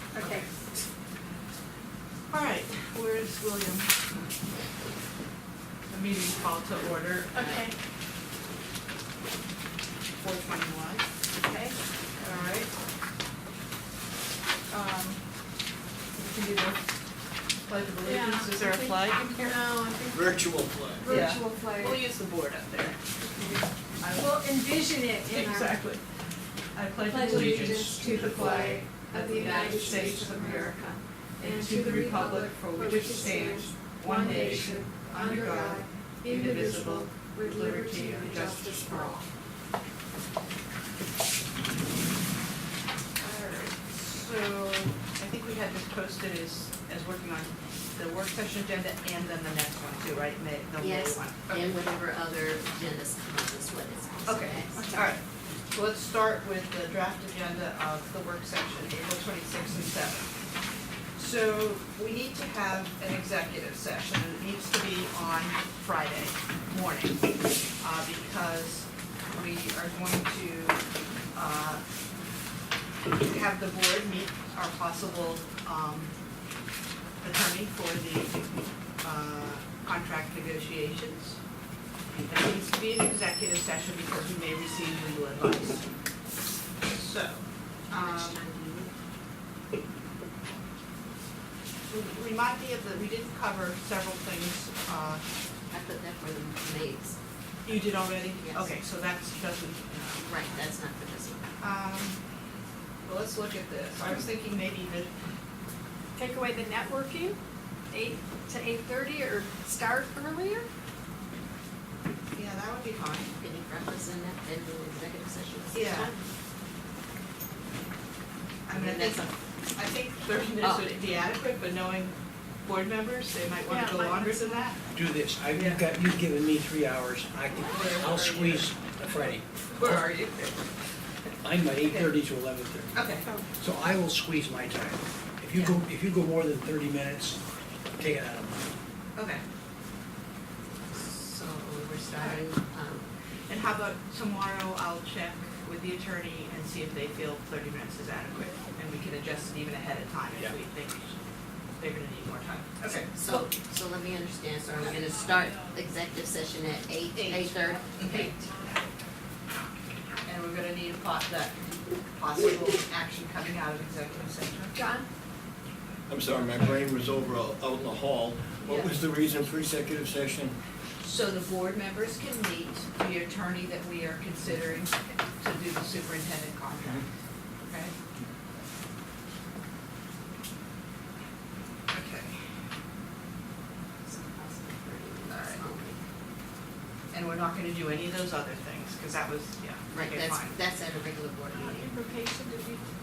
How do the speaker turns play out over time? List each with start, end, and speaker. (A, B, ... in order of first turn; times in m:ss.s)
0:00.2-0:00.5 A
0:00.2-0:00.5 B
0:02.3-0:04.0 B
0:05.9-0:07.6 B
0:07.3-0:07.8 A
0:10.2-0:12.7 B
0:14.7-0:15.2 B
0:16.2-0:16.8 B
0:17.7-0:19.6 B
0:18.0-0:22.0 A
0:20.1-0:21.2 C
0:21.1-0:23.0 B
0:23.2-0:25.8 A
0:24.0-0:24.4 B
0:25.2-0:26.0 B
0:26.8-0:39.2 B
0:27.0-0:39.2 A
0:27.3-0:30.2 D
0:34.3-0:34.6 D
0:43.2-0:51.7 B
0:50.8-0:55.2 E
0:54.3-1:00.3 B
1:01.2-1:10.8 B
1:11.3-1:11.8 B
1:13.2-1:16.1 B
1:17.2-1:18.4 B
1:19.0-1:21.4 B
1:22.3-1:25.8 B
1:26.8-1:28.4 B
1:27.9-1:28.9 E
1:31.9-1:35.2 B
1:35.7-1:37.2 E
1:37.6-1:40.3 B
1:38.4-1:38.7 E
1:40.2-1:41.4 E
1:41.6-1:42.2 B
1:43.0-1:45.1 B
1:46.2-1:47.4 A
1:47.9-1:50.7 A
1:52.3-1:53.3 B
1:53.4-1:56.2 E
1:55.7-1:56.1 B
1:58.7-2:02.1 B
1:58.7-1:59.3 E
2:00.6-2:00.9 E
2:02.6-2:04.8 B
2:03.7-2:04.7 A
2:04.9-2:10.1 D
2:05.5-2:05.8 B
2:07.7-2:10.7 B
2:11.4-2:12.9 D
2:11.8-2:12.1 B
2:12.9-2:13.3 B
2:13.2-2:13.5 A
2:13.6-2:17.4 D
2:18.0-2:18.6 D
2:19.2-2:19.4 B
2:20.9-2:23.1 E
2:22.1-2:22.5 B
2:23.5-2:31.1 B
2:31.8-2:33.5 B
2:33.0-2:38.4 E
2:37.1-2:38.3 B
2:38.1-2:38.8 A
2:40.2-2:41.6 B
2:42.1-2:44.8 B
2:44.7-2:45.1 A
2:46.1-2:50.6 C
2:46.6-2:46.8 B
2:48.6-2:49.2 B
2:51.0-2:57.1 B
2:57.6-2:58.0 B
3:01.9-3:02.4 B
3:04.0-3:06.0 E
3:05.3-3:05.6 B
3:07.1-3:10.6 B
3:09.9-3:11.9 E
3:11.5-3:12.8 A